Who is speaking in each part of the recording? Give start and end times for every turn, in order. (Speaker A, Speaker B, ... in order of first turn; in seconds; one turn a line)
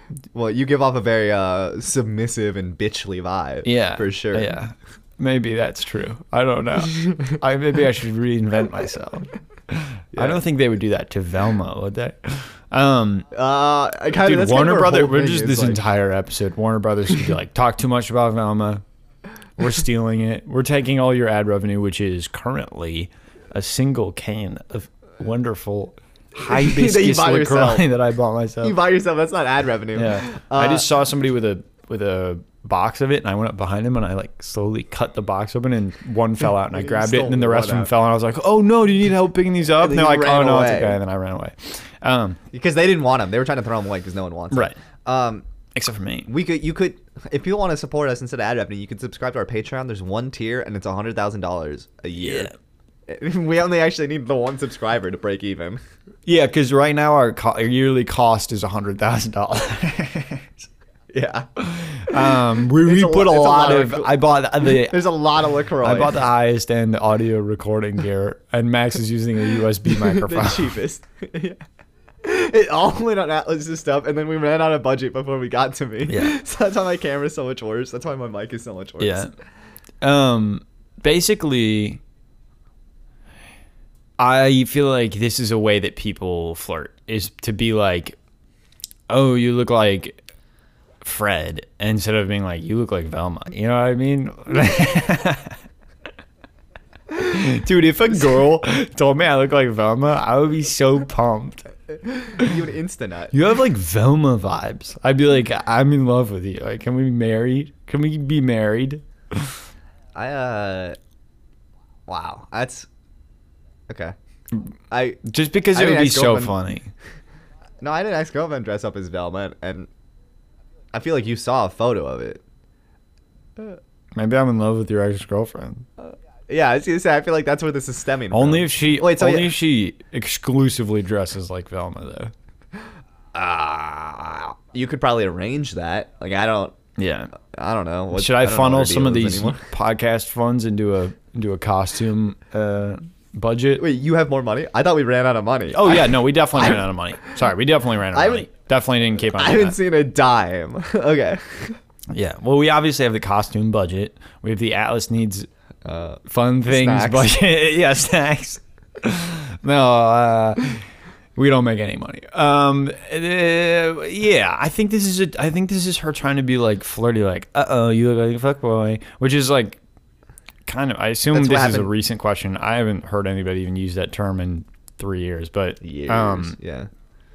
Speaker A: 0.3-4.6
Speaker B: 3.6-13.3
Speaker A: 10.1-10.4
Speaker A: 13.3-15.8
Speaker B: 14.2-18.8
Speaker B: 19.6-28.8
Speaker A: 26.4-27.9
Speaker A: 28.6-30.9
Speaker B: 29.9-42.4
Speaker A: 36.7-37.9
Speaker A: 39.8-41.0
Speaker A: 42.5-45.5
Speaker B: 44.5-44.8
Speaker B: 45.8-46.3
Speaker A: 46.3-52.5
Speaker B: 52.2-52.5
Speaker A: 53.1-55.8
Speaker B: 56.3-60.6
Speaker A: 61.1-61.5
Speaker B: 61.6-65.1
Speaker A: 62.1-66.2
Speaker B: 65.8-70.7
Speaker A: 69.9-71.6
Speaker A: 72.2-79.3
Speaker B: 76.1-76.4
Speaker B: 79.0-79.3
Speaker B: 80.0-82.0
Speaker B: 84.2-88.2
Speaker B: 89.1-90.2
Speaker B: 91.0-95.6
Speaker B: 97.2-101.7
Speaker A: 102.1-103.3
Speaker B: 103.3-109.6
Speaker A: 110.2-111.0
Speaker A: 112.1-112.9
Speaker A: 113.9-114.2
Speaker B: 114.5-116.9
Speaker A: 114.9-116.5
Speaker A: 117.8-119.9
Speaker A: 120.9-122.4
Speaker B: 124.2-125.9
Speaker A: 126.0-129.5
Speaker B: 128.3-132.3
Speaker A: 133.3-136.8
Speaker B: 137.0-137.3
Speaker A: 137.5-139.7
Speaker B: 138.1-143.8
Speaker A: 143.8-146.8
Speaker B: 145.7-149.8
Speaker A: 148.1-148.5
Speaker A: 149.3-151.8
Speaker B: 152.1-155.5
Speaker A: 155.8-157.4
Speaker B: 156.3-169.8
Speaker B: 170.7-176.6
Speaker A: 171.3-171.9
Speaker A: 175.8-176.9